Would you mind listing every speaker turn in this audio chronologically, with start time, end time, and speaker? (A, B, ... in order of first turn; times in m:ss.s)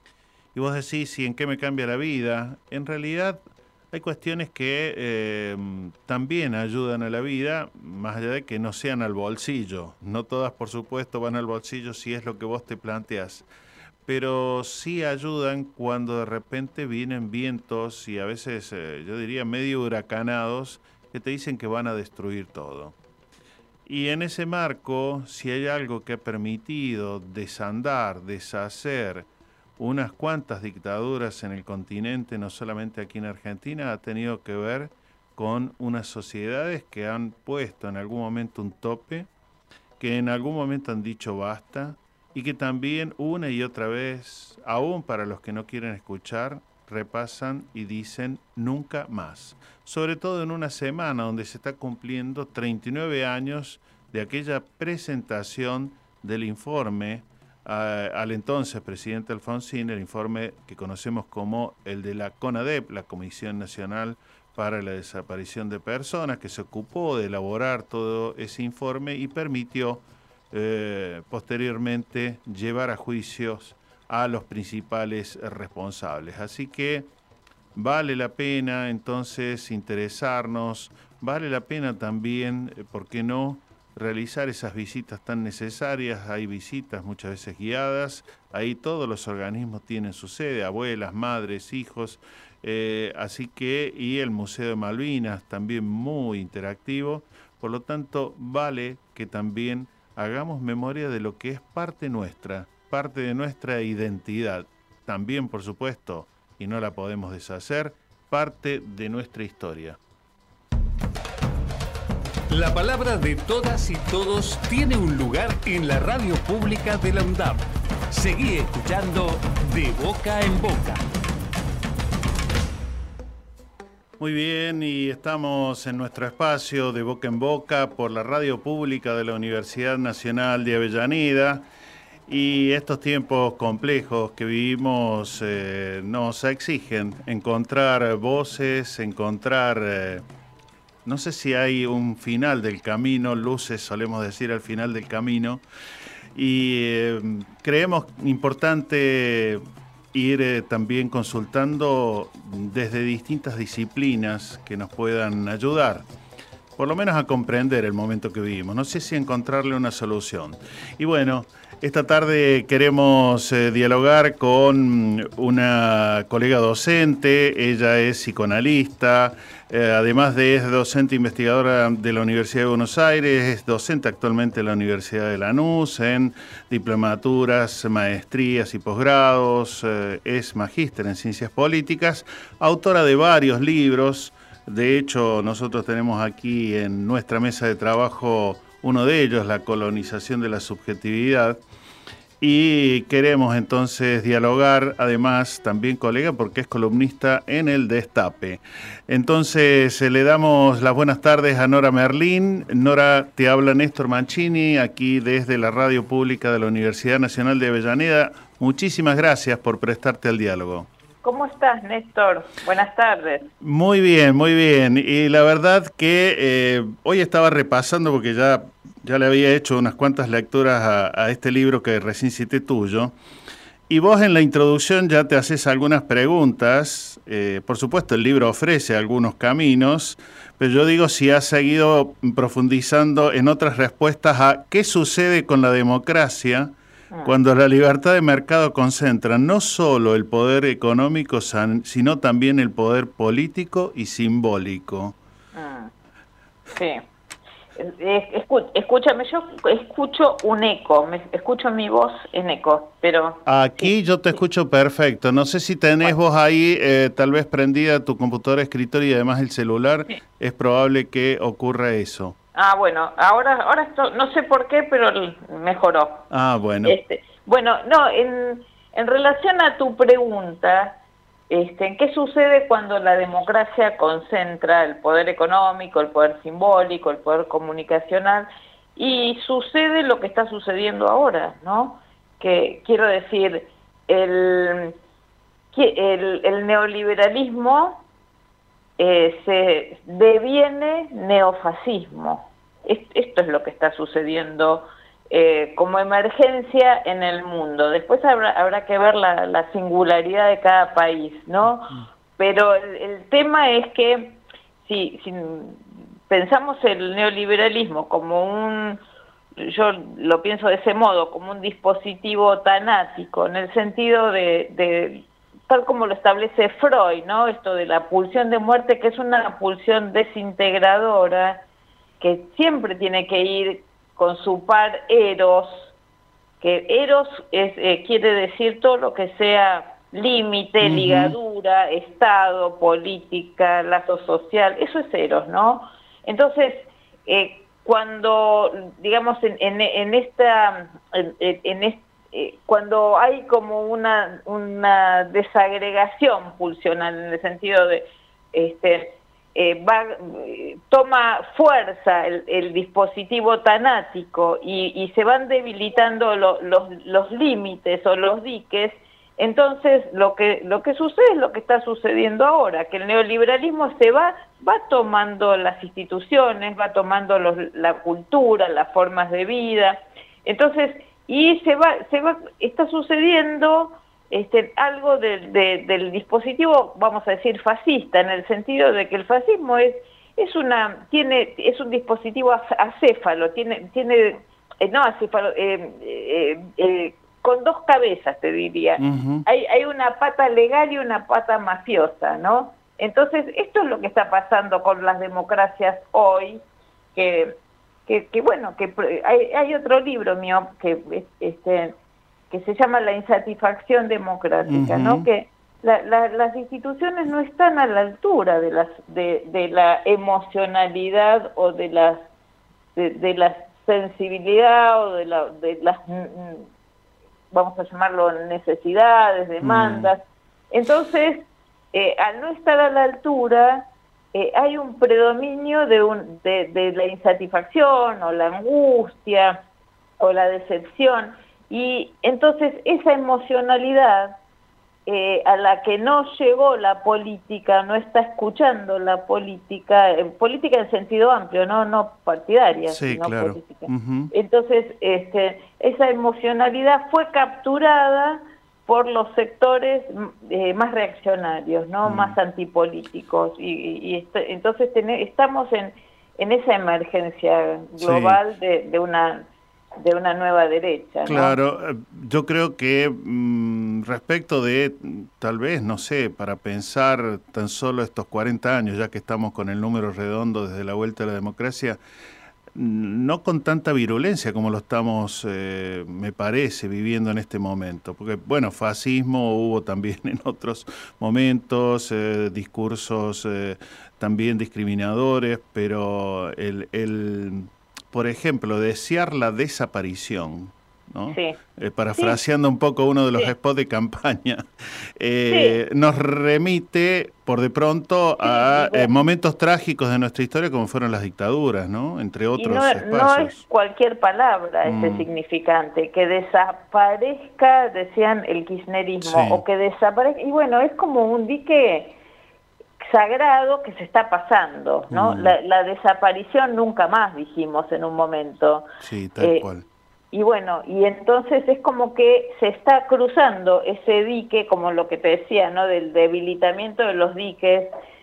0:00.5-0:13.4 A
0:14.0-0:22.9 A
0:23.8-0:29.3 A
0:29.8-0:39.3 A
0:40.0-1:17.1 A
1:17.8-1:50.0 A
1:52.5-2:01.0 B
2:04.2-2:11.6 A
2:12.3-2:20.2 A
2:21.0-2:25.6 A
2:26.3-2:36.1 A
2:36.8-3:11.6 A
3:12.4-3:30.9 A
3:31.2-3:33.5 C
3:33.6-3:43.2 A
3:43.9-4:05.2 A
4:05.5-4:05.9 C
4:06.8-4:07.0 C
4:07.8-4:13.9 C
4:13.4-4:22.4 A
4:22.5-4:26.2 C
4:26.3-4:27.0 A
4:26.8-4:31.0 C
4:31.5-4:44.9 C
4:45.7-4:48.0 C
4:49.0-5:09.0 C
5:09.6-5:21.6 C
5:22.2-5:25.9 C
5:26.6-6:36.6 C
5:30.8-5:31.4 A
6:29.0-6:29.4 A
6:37.1-6:41.9 C
6:42.5-6:52.2 C
6:44.7-6:45.3 A
6:53.0-6:56.7 C
6:57.5-7:09.6 C
6:59.6-7:00.1 A
7:10.2-7:14.4 C
7:15.0-7:39.5 C
7:22.9-7:24.3 A
7:32.0-7:32.4 A
7:38.0-7:38.4 A
7:40.0-7:41.6 C
7:41.3-7:52.0 A
7:52.7-8:23.6 A
8:11.3-8:11.6 C
8:12.1-8:12.4 C
8:15.5-8:15.8 C
8:18.4-8:19.1 C
8:22.6-8:32.2 C
8:24.8-8:25.3 A
8:29.2-8:29.6 A
8:33.0-8:38.9 C
8:35.1-8:35.6 A
8:39.0-8:39.8 A
8:39.4-8:39.6 C
8:40.3-8:47.9 C